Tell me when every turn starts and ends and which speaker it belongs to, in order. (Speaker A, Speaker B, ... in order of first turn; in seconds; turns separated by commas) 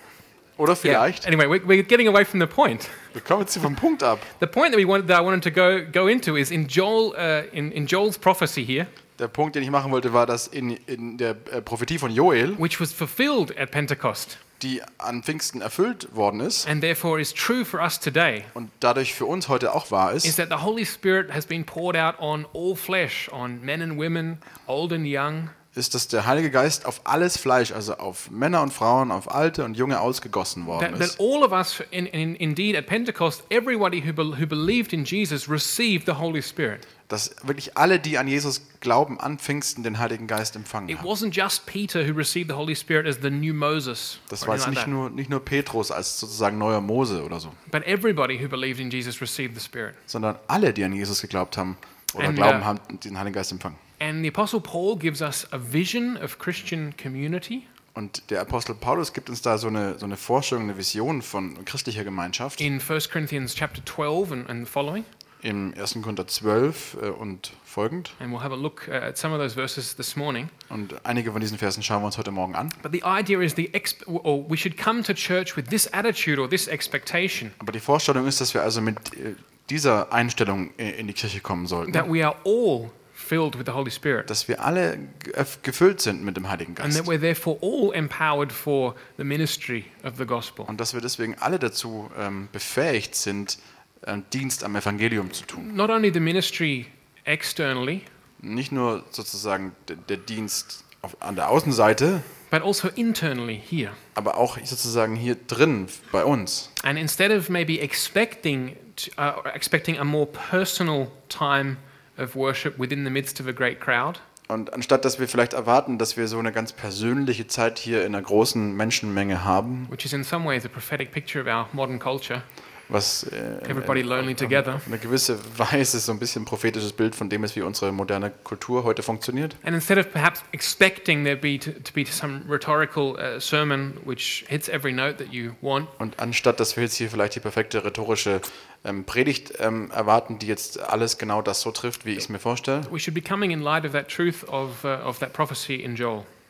Speaker A: 0.6-1.3, Speaker B: 0.8-3.1, Speaker A: 3.1-4.3, Speaker B: 4.4-8.9, Speaker A: 9.2-12.6, Speaker B: 12.6-14.4, Speaker A: 14.6-16.7, Speaker B: 16.6-18.5, Speaker A: 18.5-20.4, Speaker B: 20.2-25.5, Speaker A: 25.7-31.1, Speaker B: 30.7-36.9, Speaker A: 37.1-41.1, Speaker B: 40.9-44.9, Speaker A: 44.3-47.6, Speaker B: 47.7-50.0, Speaker A: 50.1-53.8, Speaker B: 52.2-52.6, Speaker B: 54.0-57.6, Speaker A: 57.9-62.7, Speaker B: 62.6-65.1, Speaker A: 65.4-68.2, Speaker B: 68.2-70.5, Speaker A: 70.7-72.8, Speaker B: 72.8-77.5, Speaker A: 77.6-82.1, Speaker B: 81.9-84.3, Speaker A: 84.3-87.1, Speaker B: 86.8-90.7, Speaker A: 90.7-95.7, Speaker B: 95.6-98.1, Speaker A: 98.4-102.3, Speaker B: 102.5-104.0, Speaker A: 104.1-106.7, Speaker B: 106.8-114.2, Speaker A: 114.5-119.9, Speaker B: 119.9-122.5, Speaker A: 122.9-129.6, Speaker B: 123.6-124.8, Speaker B: 129.6-135.9, Speaker A: 136.0-142.9, Speaker B: 142.8-146.3